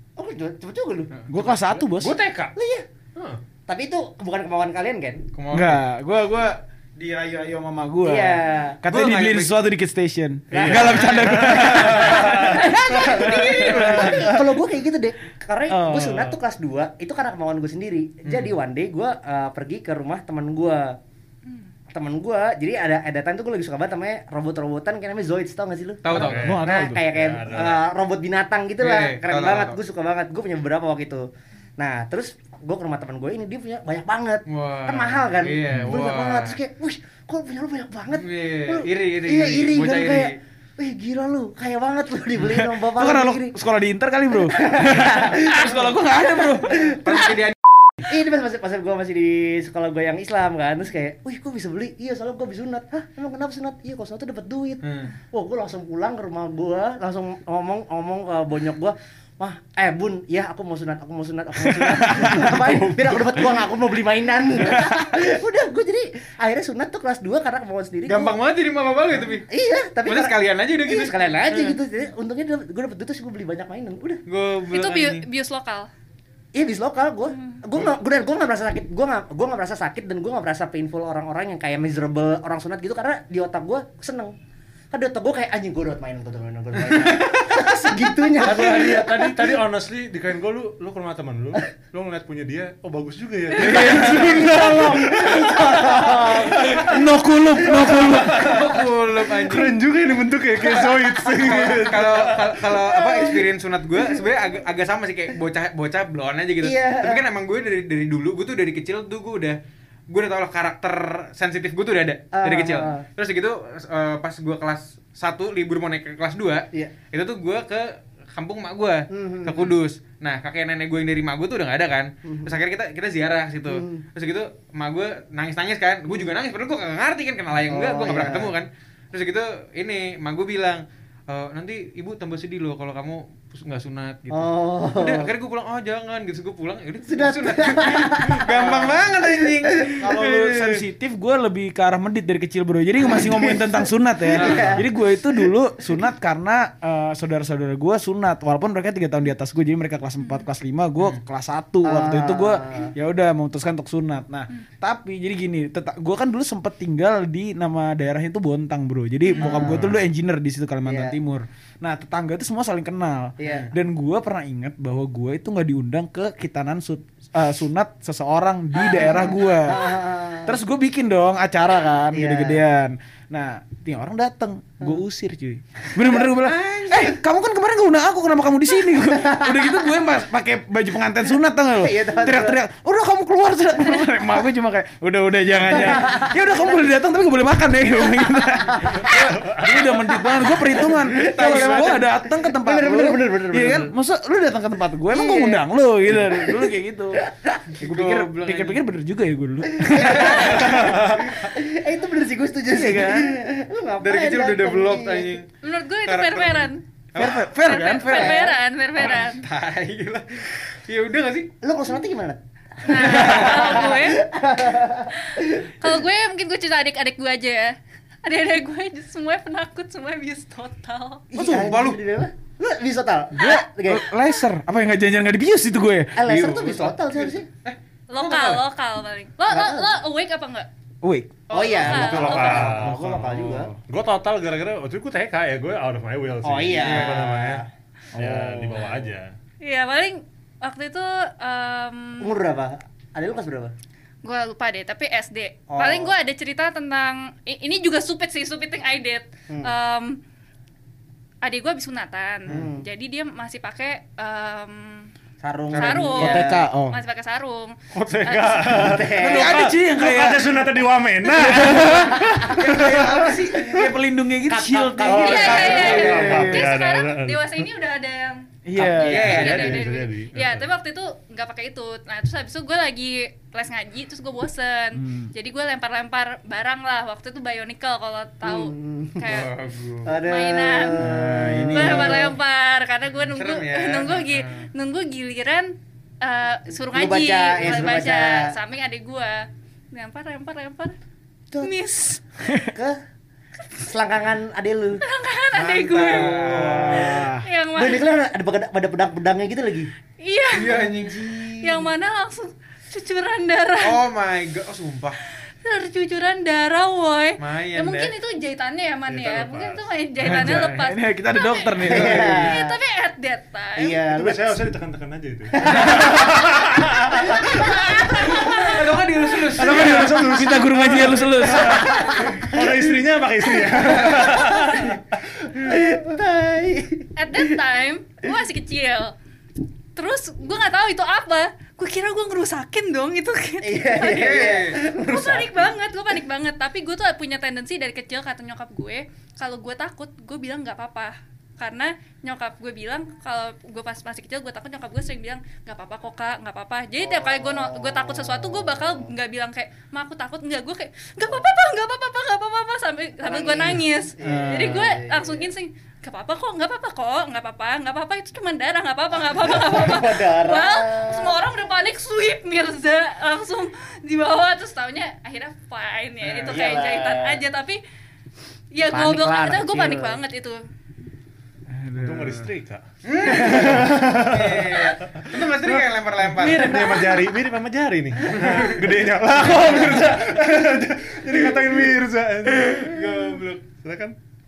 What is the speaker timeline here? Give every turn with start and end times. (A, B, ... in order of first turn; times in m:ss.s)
0:00.2-0:01.1 A
0:01.1-0:01.4 B
0:01.3-0:02.2 C
0:02.0-0:02.5 B
0:02.0-0:02.5 D
0:02.6-0:02.8 A
0:03.7-0:05.2 A
0:05.3-0:05.8 B
0:05.5-0:14.5 C
0:08.0-0:08.8 A
0:08.8-0:09.6 B
0:10.5-0:12.8 D
0:10.6-0:12.1 B
0:11.6-0:21.0 A
0:13.0-0:14.3 B
0:15.7-0:16.4 C
0:18.2-0:18.5 B
0:21.9-0:31.2 A
0:26.0-0:26.6 B
0:26.1-0:27.8 D
0:26.1-0:27.0 C
0:28.8-0:29.8 B
0:31.8-0:43.6 A
0:34.5-0:36.6 B
0:38.1-0:40.4 B
0:42.4-0:47.3 C
0:44.3-0:47.4 A
0:47.0-0:47.6 B
0:48.0-1:08.3 A
0:54.8-0:55.1 B
1:01.7-1:02.6 C
1:02.6-1:03.6 D
1:08.1-1:09.5 B
1:09.5-1:14.2 A
1:10.0-1:11.8 B
1:14.3-1:15.2 B
1:14.7-1:15.9 E
1:16.5-1:24.3 A
1:17.3-1:17.6 E
1:24.9-1:29.4 A
1:28.3-1:37.0 D
1:33.6-1:35.0 C
1:33.7-1:37.0 A
1:35.7-1:35.9 C
1:36.5-1:38.8 C
1:37.6-1:42.8 D
1:38.0-1:39.7 B
1:41.4-2:20.5 B
1:43.0-1:43.5 A
1:46.6-1:47.2 A
1:52.3-1:53.0 A
1:59.1-1:59.7 A
2:02.2-2:02.5 A
2:03.7-2:04.0 A
2:06.1-2:06.3 A
2:07.7-2:08.5 A
2:14.3-2:15.3 A
2:17.0-2:20.8 A
2:20.0-2:49.9 C
2:23.0-2:25.5 A
2:24.3-2:24.8 B
2:31.8-2:32.9 A
2:39.2-2:39.7 E
2:39.4-2:40.0 A
2:40.8-2:41.2 A
2:43.4-2:43.7 A
2:43.4-2:43.7 B
2:48.7-2:50.6 A
2:50.4-3:17.2 C
2:52.1-2:52.6 A
2:55.9-2:57.2 A
2:59.1-2:59.8 A
3:01.8-3:02.6 A
3:05.6-3:07.0 A
3:08.6-3:09.3 A
3:09.4-3:09.7 D
3:10.0-3:13.9 A
3:10.9-3:12.1 B
3:15.1-3:17.6 A
3:17.7-3:18.8 B
3:17.8-3:21.0 C
3:19.8-3:25.4 A
3:19.9-3:21.1 B
3:20.7-3:21.3 D
3:22.7-3:23.4 C
3:24.0-3:25.5 B
3:25.6-3:26.8 E
3:26.0-3:27.4 B
3:27.1-3:28.5 C
3:27.6-3:29.4 E
3:28.0-3:28.6 A
3:29.0-3:31.5 B
3:31.6-3:35.9 A
3:32.8-3:34.2 E
3:33.0-3:33.7 B
3:35.1-3:41.3 E
3:41.3-3:44.1 A
3:41.3-3:42.0 B
3:41.4-3:41.7 C
3:43.3-3:46.2 C
3:46.1-3:47.5 A
3:46.2-3:48.6 B
3:48.1-3:50.7 E
3:49.5-3:50.0 A
3:51.0-3:51.4 C
3:51.5-3:52.8 E
3:51.5-3:53.7 A
3:51.7-3:57.6 D
3:56.4-3:57.6 A
3:56.8-3:57.3 B
3:58.1-3:59.3 D
3:58.2-3:58.8 A
3:59.6-4:02.3 E
4:02.2-4:03.7 A
4:04.2-4:10.2 E
4:05.7-4:06.1 A
4:11.4-4:15.1 E
4:12.5-4:12.8 A
4:15.4-4:16.7 A
4:15.7-4:16.1 B
4:15.7-4:18.8 E
4:16.2-4:17.0 C
4:17.9-4:23.6 D
4:18.7-4:19.6 A
4:19.2-4:20.6 C
4:21.3-4:26.8 C
4:21.6-4:21.9 E
4:21.7-4:26.4 A
4:25.0-4:27.6 D
4:25.2-4:28.4 E
4:28.6-4:29.4 C
4:28.8-4:29.8 B
4:29.0-4:30.7 D
4:29.0-4:39.5 E
4:34.9-4:35.3 C
4:38.4-4:39.4 A
4:39.2-4:40.2 B
4:40.0-4:42.4 A
4:40.2-4:41.2 E
4:41.0-4:42.3 C
4:41.7-4:50.9 E
4:43.3-4:44.6 B
4:46.9-4:48.5 A
4:51.6-4:52.2 E
4:52.6-4:53.0 A
4:53.8-4:55.0 A
4:55.0-4:56.4 E
4:55.5-4:57.1 B
4:55.9-4:59.9 A
4:56.4-4:57.4 C
4:57.4-4:58.0 E
5:00.2-5:00.9 E
5:00.5-5:01.9 B
5:00.9-5:01.4 A
5:01.6-5:04.0 E
5:03.8-5:05.2 B
5:05.6-5:14.0 E
5:07.4-5:08.1 B
5:09.1-5:09.9 D
5:10.2-5:12.5 C
5:11.8-5:12.8 A
5:13.8-5:14.6 A
5:14.0-5:17.8 D
5:15.5-5:18.4 A
5:17.0-5:18.8 E
5:18.2-5:20.2 B
5:19.5-5:25.9 D
5:19.6-5:22.2 C
5:21.7-5:22.8 A
5:23.6-5:24.9 A
5:25.5-5:27.6 A
5:27.2-5:29.1 E
5:29.9-6:07.8 E
5:33.6-5:35.7 A
5:34.0-5:34.8 B
5:47.0-5:49.1 A
5:53.2-5:55.5 A
5:54.2-5:54.8 B
5:59.2-6:01.4 A
6:06.2-6:06.6 B
6:06.5-6:07.4 A
6:08.7-6:10.6 E
6:08.9-6:10.2 A
6:11.7-6:12.5 C
6:11.9-6:24.2 D
6:13.0-6:17.0 B
6:18.3-6:18.8 B
6:22.7-6:23.6 B